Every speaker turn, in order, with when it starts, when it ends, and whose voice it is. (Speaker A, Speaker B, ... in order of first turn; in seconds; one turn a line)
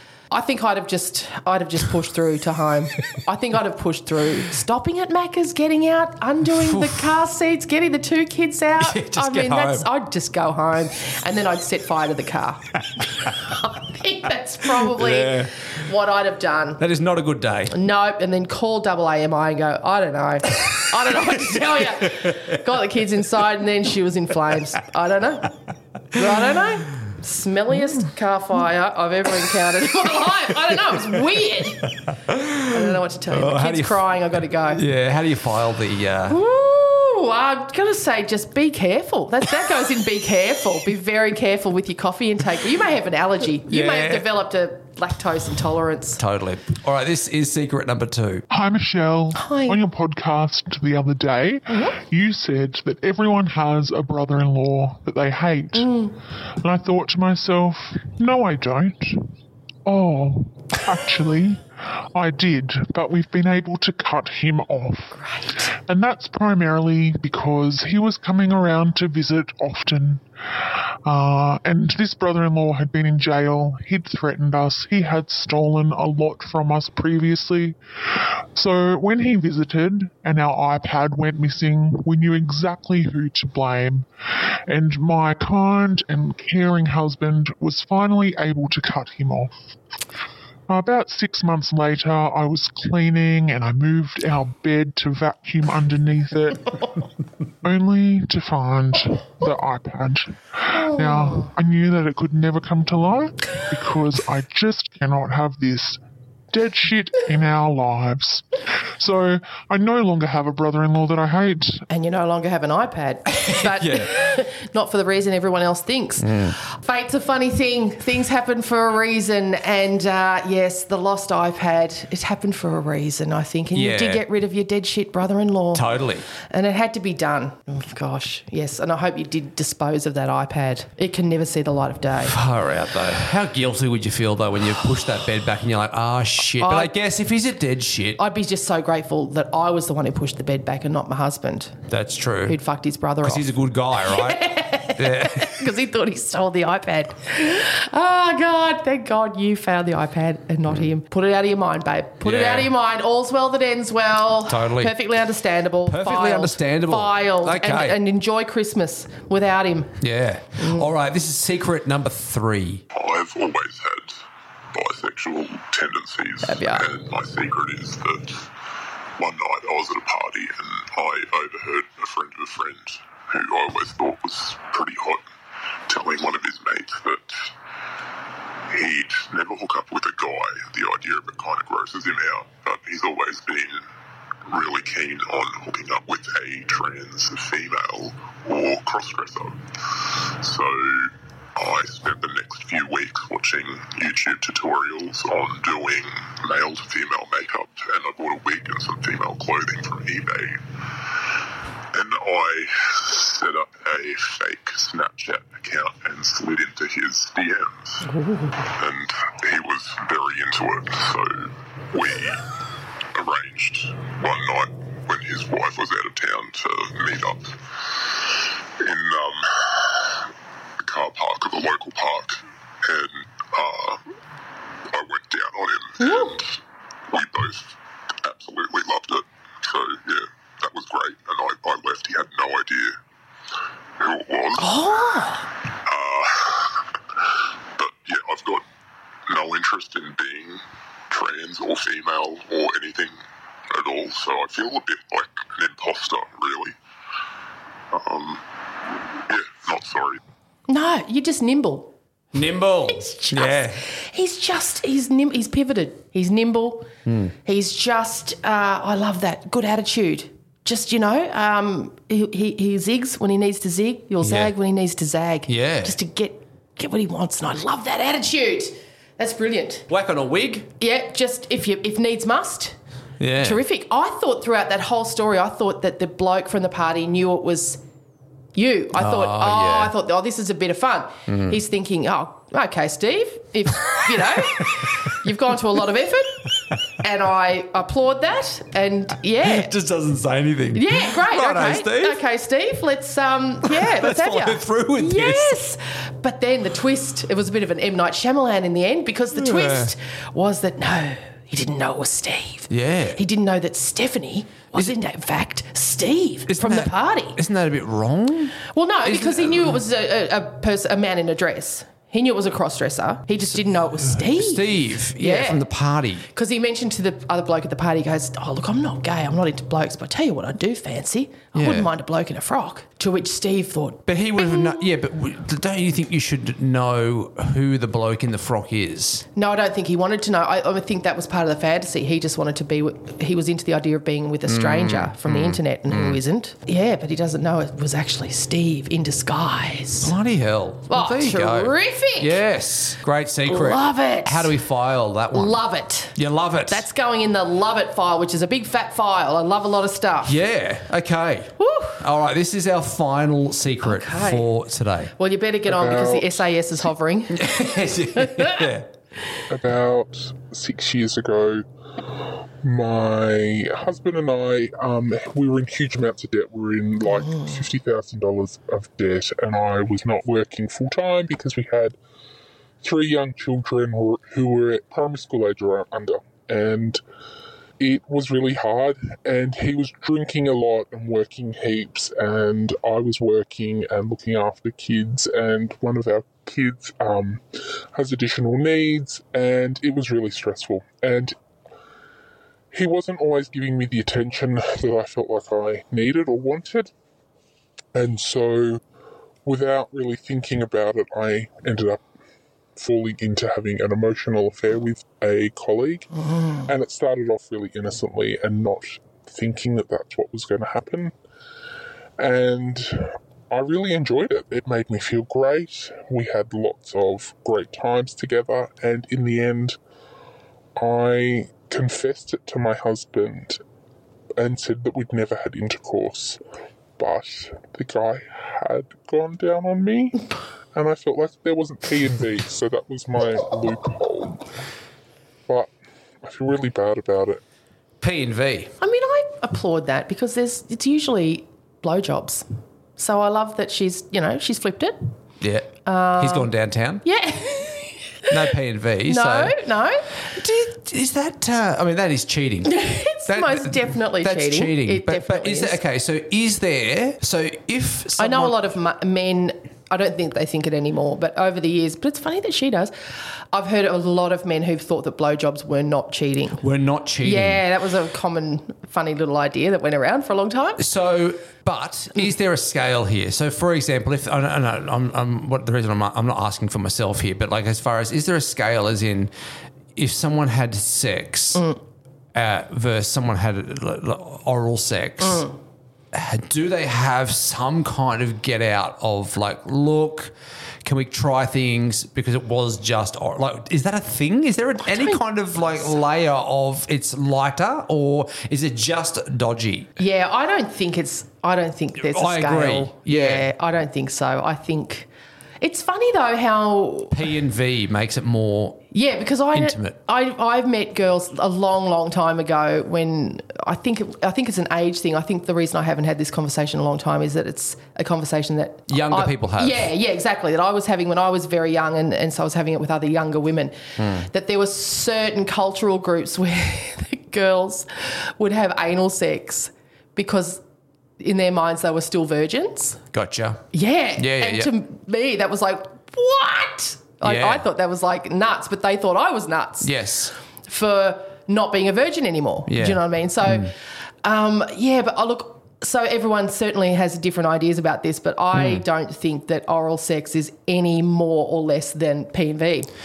Speaker A: 0.3-16.8
Speaker B: 6.6-7.0
Speaker B: 8.8-9.9
Speaker B: 14.8-15.5
Speaker B: 16.8-17.8
Speaker A: 17.7-25.5
Speaker B: 22.0-22.5
Speaker A: 26.1-31.9
Speaker B: 32.3-32.8
Speaker A: 32.7-34.8
Speaker B: 33.3-34.0
Speaker B: 34.7-36.4
Speaker A: 36.3-46.2
Speaker B: 43.7-44.2
Speaker B: 46.2-48.4
Speaker C: 48.5-55.9
Speaker A: 49.3-49.8
Speaker A: 55.7-56.1
Speaker C: 56.6-59.2
Speaker C: 59.8-65.2
Speaker A: 65.1-65.7
Speaker C: 65.9-84.1
Speaker C: 84.7-89.5
Speaker C: 90.7-96.8
Speaker C: 97.6-106.0
Speaker A: 100.9-101.5
Speaker C: 106.5-111.8
Speaker A: 111.9-132.3
Speaker B: 113.4-114.1
Speaker B: 116.2-116.5
Speaker B: 123.7-124.2
Speaker B: 125.7-126.2
Speaker B: 132.2-138.2
Speaker A: 136.6-136.9
Speaker A: 138.2-141.8
Speaker B: 141.9-142.6
Speaker A: 142.4-159.9
Speaker B: 143.2-144.4
Speaker B: 144.9-145.5
Speaker B: 152.2-152.7
Speaker B: 154.5-154.9
Speaker B: 155.9-157.9
Speaker B: 160.0-162.8
Speaker A: 160.6-160.9
Speaker D: 162.9-164.2
Speaker D: 164.7-168.4
Speaker A: 166.4-166.9
Speaker D: 169.2-175.2
Speaker D: 175.9-177.5
Speaker D: 178.7-183.8
Speaker D: 184.5-200.6
Speaker D: 201.9-208.0
Speaker A: 208.1-208.6
Speaker D: 208.6-212.4
Speaker D: 213.1-220.3
Speaker D: 220.8-224.0
Speaker D: 224.9-226.6
Speaker A: 226.0-226.4
Speaker D: 227.1-233.0
Speaker D: 234.0-234.7
Speaker A: 234.6-235.5
Speaker D: 235.8-236.8
Speaker D: 237.8-238.6
Speaker D: 239.3-243.2
Speaker D: 243.7-246.7
Speaker D: 247.9-248.4
Speaker D: 249.3-250.2
Speaker A: 250.7-251.9
Speaker B: 252.3-253.8
Speaker A: 252.9-256.9
Speaker B: 257.1-257.3
Speaker A: 257.4-269.9
Speaker B: 264.2-264.5
Speaker B: 265.5-265.9
Speaker B: 269.9-270.7
Speaker A: 270.8-272.8
Speaker B: 273.2-273.6
Speaker A: 273.4-277.8
Speaker A: 278.5-286.5
Speaker B: 279.0-279.9
Speaker B: 281.3-281.5
Speaker A: 287.0-289.7
Speaker B: 289.4-292.2
Speaker A: 290.7-307.4
Speaker B: 293.6-295.6
Speaker B: 299.3-299.9
Speaker B: 302.7-303.2
Speaker B: 306.5-309.8
Speaker A: 308.7-315.6
Speaker B: 314.0-316.2
Speaker A: 316.3-324.9
Speaker B: 321.5-321.9
Speaker B: 324.1-329.2
Speaker A: 329.4-340.1
Speaker B: 334.5-336.2
Speaker B: 340.0-345.6
Speaker A: 340.9-342.4
Speaker A: 343.5-344.6
Speaker A: 345.3-346.2
Speaker B: 346.1-346.8
Speaker A: 346.7-350.4
Speaker B: 350.2-355.1
Speaker A: 351.6-352.0
Speaker A: 353.8-354.5
Speaker A: 355.2-357.6
Speaker E: 355.7-356.4
Speaker B: 357.3-358.9
Speaker A: 358.2-358.7
Speaker E: 359.5-361.6
Speaker E: 362.6-372.0
Speaker A: 367.1-367.6
Speaker E: 372.8-377.0
Speaker E: 377.8-391.4
Speaker E: 392.7-396.9
Speaker E: 397.9-398.8
Speaker E: 399.4-402.0
Speaker E: 402.8-406.1
Speaker A: 406.2-406.7
Speaker E: 406.7-411.1
Speaker E: 412.2-419.8
Speaker E: 420.8-423.6
Speaker E: 424.4-426.4
Speaker E: 427.0-434.4
Speaker E: 436.2-437.4
Speaker B: 438.0-438.7
Speaker A: 438.8-442.4
Speaker A: 443.0-445.0
Speaker B: 445.4-447.0
Speaker A: 445.8-446.5
Speaker A: 447.0-448.3
Speaker B: 448.3-449.5
Speaker A: 449.1-450.1
Speaker B: 450.3-452.8
Speaker A: 452.6-455.8
Speaker B: 453.3-458.6
Speaker A: 458.2-462.9
Speaker A: 463.5-466.6
Speaker B: 466.6-467.6
Speaker A: 467.2-470.8
Speaker B: 470.8-479.3
Speaker B: 479.9-481.6
Speaker B: 482.3-485.5
Speaker A: 485.2-485.5
Speaker B: 486.1-490.3
Speaker B: 490.8-499.9
Speaker A: 494.8-495.9
Speaker A: 500.0-505.1
Speaker B: 502.0-503.5
Speaker A: 505.6-507.2
Speaker B: 507.1-508.8
Speaker A: 508.9-530.6
Speaker B: 509.5-509.9
Speaker B: 518.9-519.8
Speaker B: 524.0-524.3
Speaker A: 531.2-533.0
Speaker B: 533.1-533.6
Speaker A: 533.7-539.9
Speaker B: 534.2-534.7
Speaker B: 537.2-537.6
Speaker B: 539.8-540.3
Speaker A: 540.7-543.7
Speaker B: 542.7-543.7
Speaker A: 544.2-552.9
Speaker B: 548.5-548.8